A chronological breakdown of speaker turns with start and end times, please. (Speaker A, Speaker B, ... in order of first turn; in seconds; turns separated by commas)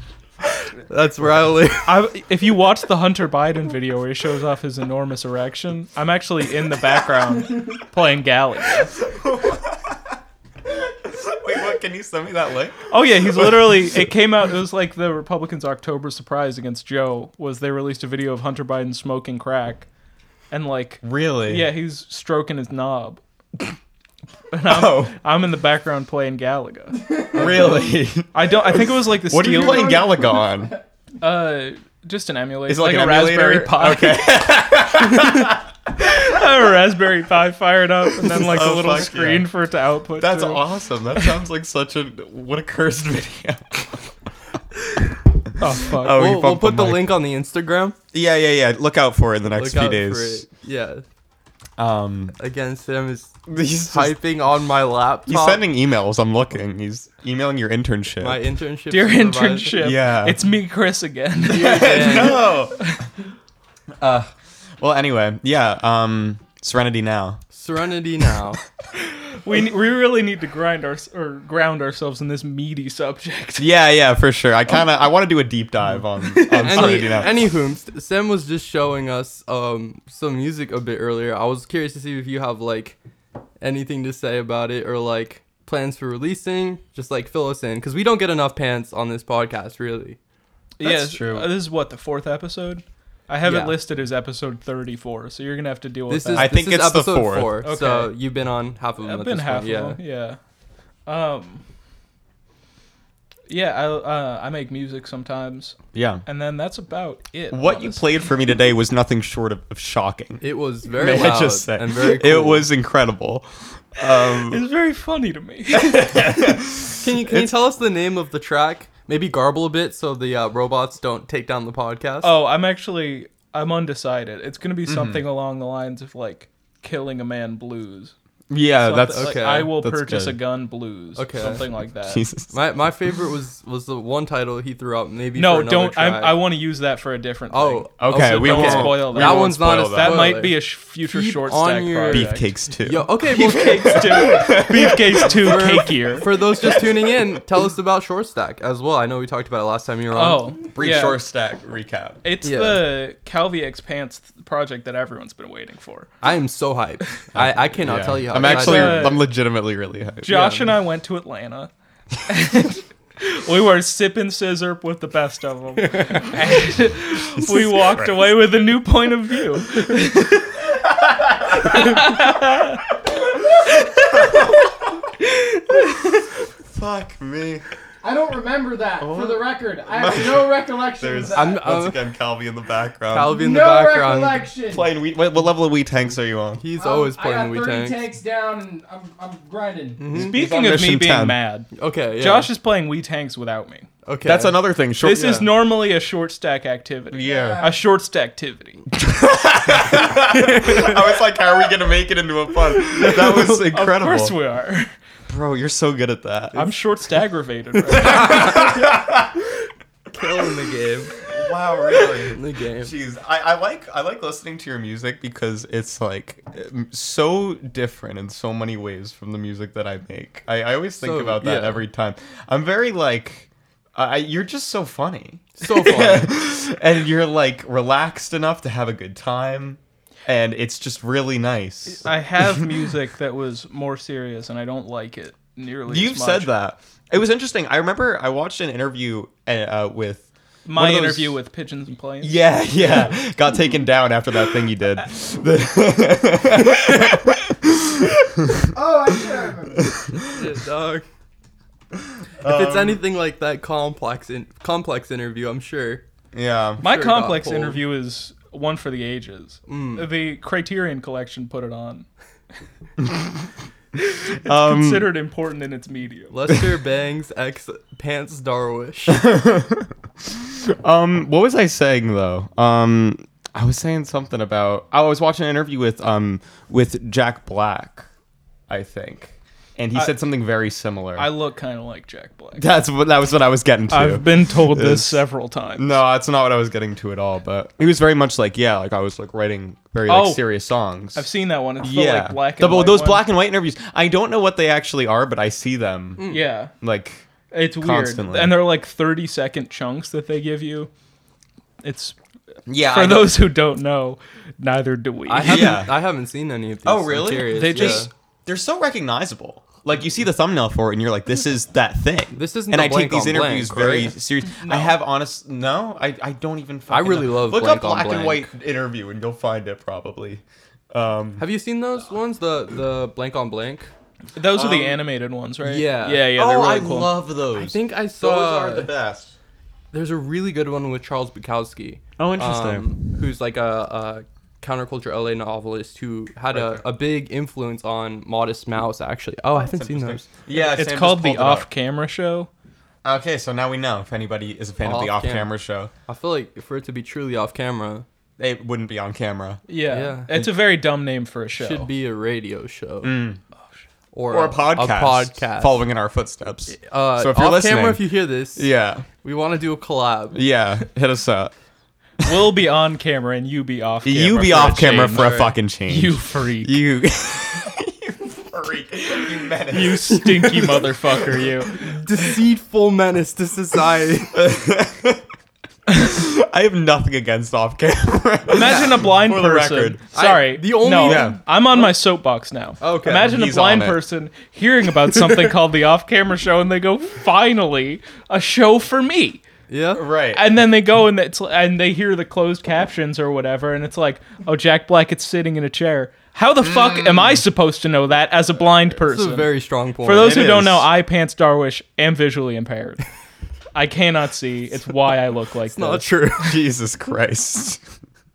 Speaker A: 0.9-1.9, Speaker B: 1.8-8.9, Speaker C: 9.0-10.0, Speaker C: 10.7-14.1, Speaker B: 12.9-19.9, Speaker B: 20.5-23.2, Speaker C: 21.0-21.7, Speaker B: 24.5-27.0, Speaker C: 24.7-25.1, Speaker D: 27.2-27.8, Speaker C: 27.3-30.7, Speaker B: 28.3-30.1, Speaker B: 31.2-34.2, Speaker C: 32.7-35.6, Speaker B: 36.0-40.6, Speaker C: 38.2-39.5, Speaker C: 40.2-44.1, Speaker C: 45.4-47.1, Speaker B: 45.6-46.2, Speaker A: 46.1-48.0, Speaker C: 48.1-50.4, Speaker A: 49.6-51.0, Speaker C: 51.8-52.4, Speaker A: 52.4-55.6, Speaker C: 53.5-54.1, Speaker C: 55.3-58.4, Speaker A: 58.2-59.8, Speaker B: 58.9-63.1, Speaker C: 59.8-60.4, Speaker C: 61.5-62.9, Speaker A: 61.5-62.5, Speaker C: 64.0-67.4, Speaker A: 67.5-68.6, Speaker B: 69.0-73.7, Speaker C: 73.6-77.3, Speaker B: 76.3-77.3, Speaker A: 76.5-83.0, Speaker A: 83.6-90.2, Speaker B: 90.8-96.5, Speaker C: 90.8-91.5, Speaker A: 93.4-93.8, Speaker A: 96.1-100.0, Speaker C: 96.3-97.5, Speaker B: 97.6-98.1, Speaker B: 99.0-100.4, Speaker B: 101.1-101.6, Speaker B: 103.5-108.1, Speaker C: 105.9-106.2, Speaker C: 107.5-114.6, Speaker A: 110.4-112.7, Speaker B: 114.5-116.2, Speaker C: 115.7-117.5, Speaker A: 116.9-122.3, Speaker B: 122.2-128.1, Speaker C: 124.9-125.2, Speaker C: 128.5-130.4, Speaker B: 128.8-132.2, Speaker A: 129.1-129.7, Speaker A: 131.2-131.6, Speaker C: 132.0-132.5, Speaker A: 132.5-136.4, Speaker B: 135.3-142.5, Speaker A: 137.5-144.4, Speaker C: 138.0-140.3, Speaker C: 142.1-145.8, Speaker B: 143.2-146.7, Speaker A: 145.2-150.6, Speaker C: 146.6-147.2, Speaker B: 150.1-151.2, Speaker C: 150.7-152.2, Speaker B: 152.2-156.1, Speaker A: 152.4-152.8, Speaker A: 156.2-159.2, Speaker C: 157.3-160.3, Speaker B: 158.4-159.2, Speaker B: 160.2-161.7, Speaker A: 160.3-160.7, Speaker B: 162.3-170.6, Speaker A: 165.8-166.3, Speaker C: 167.3-168.3, Speaker C: 171.1-171.9, Speaker B: 171.5-172.8, Speaker B: 173.6-176.2, Speaker C: 174.1-174.9, Speaker C: 176.6-177.6, Speaker D: 178.0-181.7, Speaker C: 179.0-183.4, Speaker A: 181.3-182.0, Speaker A: 183.1-184.5, Speaker D: 183.3-184.9, Speaker C: 184.7-186.6, Speaker A: 186.6-188.1, Speaker D: 186.7-190.1, Speaker A: 190.0-190.3, Speaker B: 190.1-193.9, Speaker C: 190.1-191.4, Speaker A: 191.7-192.5, Speaker A: 194.0-194.6, Speaker C: 194.2-195.4, Speaker B: 195.0-198.8, Speaker A: 195.1-195.5, Speaker C: 197.1-197.6, Speaker D: 197.2-197.8, Speaker C: 198.9-204.3, Speaker A: 200.1-201.1, Speaker B: 203.0-204.9, Speaker C: 205.3-206.7, Speaker B: 206.5-208.7, Speaker C: 208.0-209.3, Speaker A: 208.0-208.8, Speaker A: 210.1-211.2, Speaker C: 211.2-232.7, Speaker A: 212.2-212.9, Speaker A: 221.0-221.8, Speaker A: 225.6-226.3, Speaker B: 231.9-236.5, Speaker C: 235.9-241.4, Speaker B: 240.7-243.1, Speaker C: 242.2-248.7, Speaker A: 242.8-243.1, Speaker D: 248.7-250.0, Speaker C: 249.9-250.2, Speaker A: 250.3-251.0, Speaker C: 252.0-253.0, Speaker A: 252.4-256.0, Speaker C: 256.3-256.8, Speaker A: 256.8-257.8, Speaker B: 256.8-262.1, Speaker A: 259.7-260.1, Speaker C: 263.0-263.3, Speaker B: 264.0-266.3, Speaker C: 264.4-265.1, Speaker A: 266.3-269.2, Speaker C: 269.1-278.1, Speaker C: 278.7-281.3, Speaker B: 281.1-282.6, Speaker C: 282.6-285.2, Speaker B: 283.9-286.0, Speaker C: 285.8-291.2, Speaker B: 290.1-290.4, Speaker B: 291.1-293.2, Speaker C: 291.8-296.2, Speaker A: 296.2-296.5, Speaker B: 296.3-296.7, Speaker C: 296.8-297.3, Speaker B: 297.5-300.9, Speaker C: 297.8-298.6, Speaker B: 301.8-302.2, Speaker C: 302.7-303.4, Speaker B: 302.8-305.8, Speaker A: 305.3-308.1, Speaker C: 305.4-305.9, Speaker C: 306.8-321.4, Speaker B: 307.5-308.1, Speaker A: 312.4-314.1, Speaker B: 314.6-314.9, Speaker A: 316.9-318.5, Speaker A: 321.4-323.9, Speaker B: 324.3-327.1, Speaker C: 324.5-325.0, Speaker A: 325.6-326.3, Speaker C: 326.3-329.3, Speaker A: 327.5-328.9, Speaker A: 329.9-340.2, Speaker C: 332.2-333.0, Speaker C: 336.5-336.8, Speaker C: 339.6-341.7, Speaker B: 340.5-342.5, Speaker C: 343.0-345.9, Speaker A: 344.8-345.5, Speaker A: 346.1-348.1, Speaker C: 348.4-349.6, Speaker B: 349.7-351.9, Speaker A: 349.9-350.3, Speaker A: 351.6-353.1, Speaker C: 353.0-353.4, Speaker A: 354.1-355.8, Speaker C: 354.3-358.0, Speaker A: 356.8-360.4, Speaker C: 358.5-359.1, Speaker C: 360.3-361.5, Speaker B: 362.2-365.3, Speaker C: 364.0-370.2, Speaker A: 365.1-365.5, Speaker B: 365.9-366.7, Speaker B: 369.7-371.8, Speaker A: 370.1-370.9, Speaker A: 371.7-374.4, Speaker C: 374.3-375.2, Speaker C: 375.9-380.0, Speaker B: 378.5-389.4, Speaker A: 380.1-381.9, Speaker C: 381.0-381.4, Speaker A: 382.8-383.4, Speaker C: 383.2-384.0, Speaker A: 385.0-385.5, Speaker A: 389.7-390.0, Speaker C: 389.9-390.5, Speaker B: 390.3-399.5, Speaker C: 396.6-397.3, Speaker A: 399.0-400.4, Speaker B: 400.0-403.0, Speaker C: 400.2-400.9, Speaker B: 403.7-406.1, Speaker A: 405.7-406.6, Speaker C: 406.4-407.8